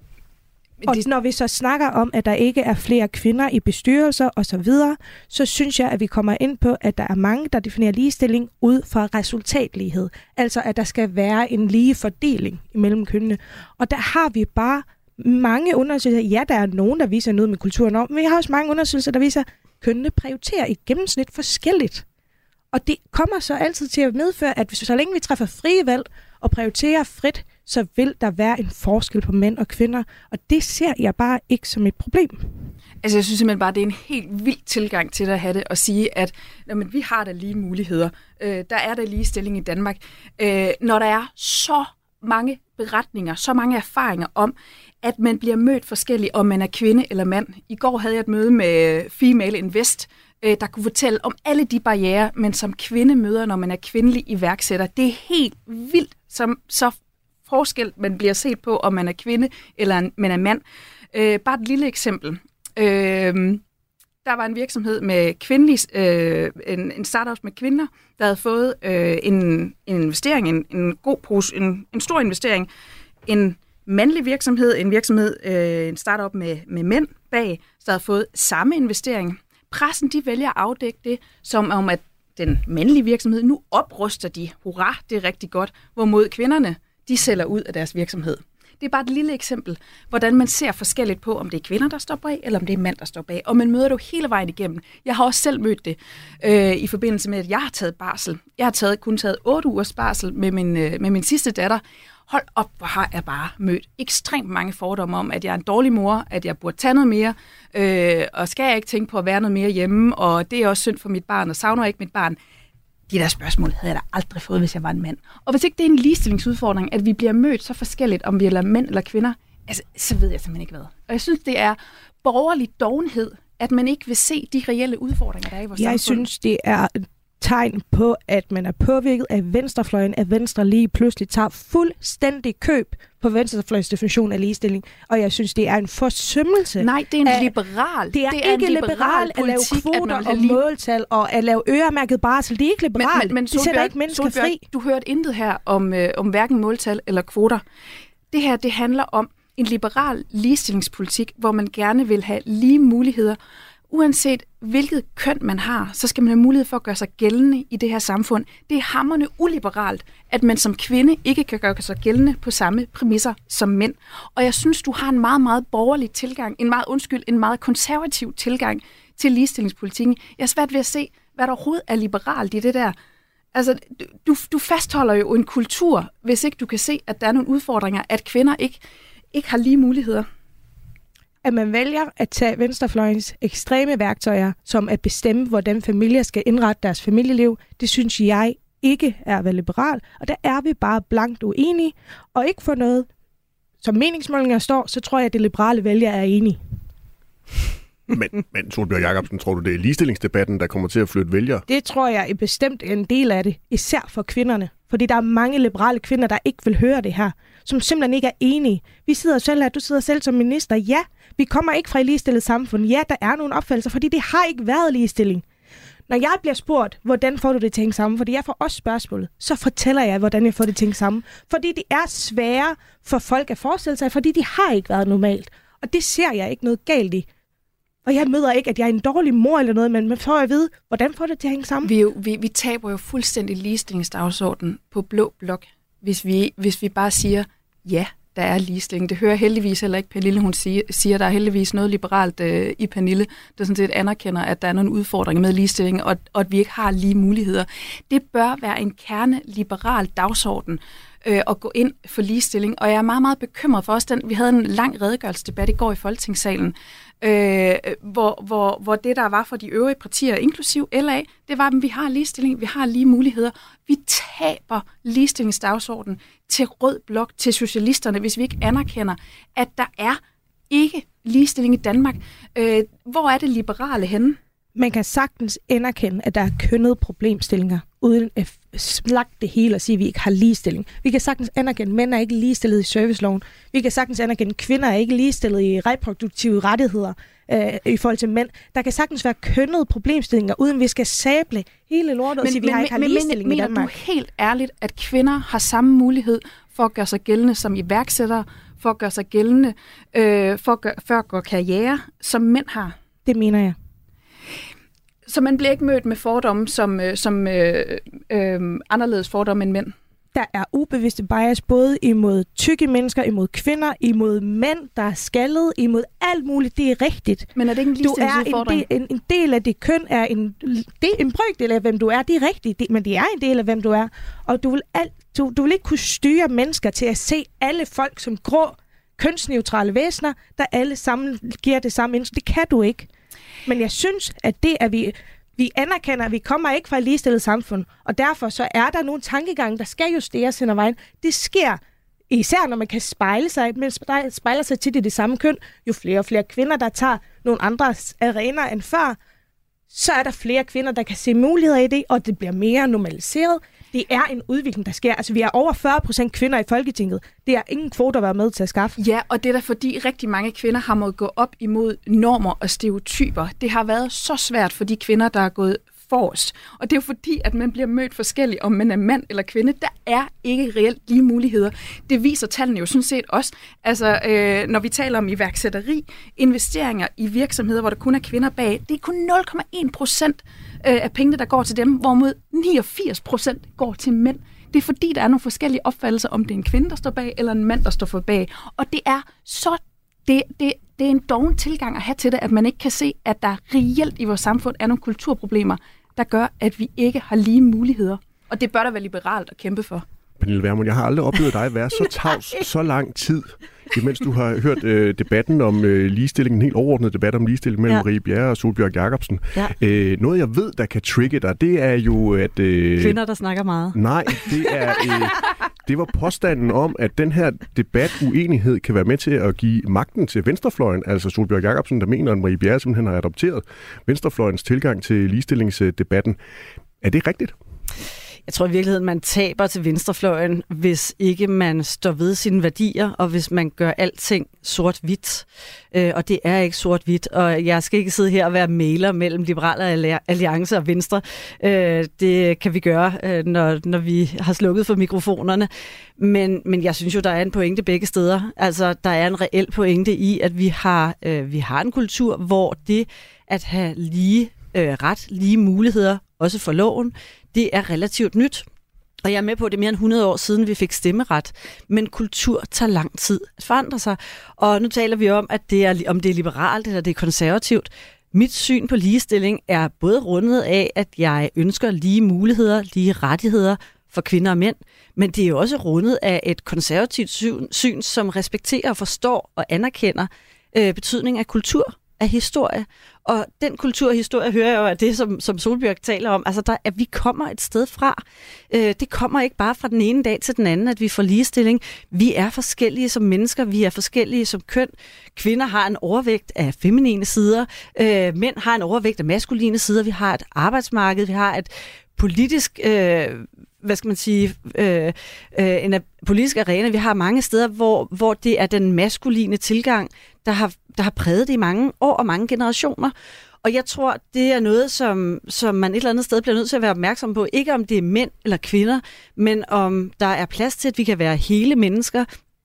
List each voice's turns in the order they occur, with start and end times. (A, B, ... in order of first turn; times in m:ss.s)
0:00.8-0:22.0 A
0:22.7-0:32.5 A
0:33.0-0:57.0 B
0:57.5-1:00.6 B
1:01.1-1:03.6 B
1:04.2-1:12.7 B
1:13.3-1:52.4 B
1:53.1-2:06.3 B
2:05.8-2:17.5 A
2:16.8-2:20.6 B
2:18.1-2:24.6 A
2:23.0-2:27.6 B
2:28.3-2:33.4 B
2:33.9-2:53.0 B
2:53.5-2:58.8 B
2:59.3-3:00.3 B
3:01.4-3:13.1 A
3:13.8-3:16.6 A
3:18.1-3:21.6 C
3:21.7-3:35.4 A
3:36.1-3:47.3 A
3:48.1-3:51.9 A
3:51.8-4:34.4 B
4:34.8-4:53.9 A
4:52.4-5:03.0 B
5:03.3-5:03.8 A
5:05.3-5:10.0 B
5:10.3-5:33.1 A
5:17.6-5:18.8 B
5:33.7-5:49.2 A
5:49.9-5:59.0 A
5:59.0-6:40.0 B
6:40.4-6:53.2 C
6:53.0-6:54.5 D
6:53.9-7:06.4 C
7:07.0-7:07.6 C
7:08.5-7:38.7 D
7:39.2-8:33.1 D
8:33.6-8:42.3 D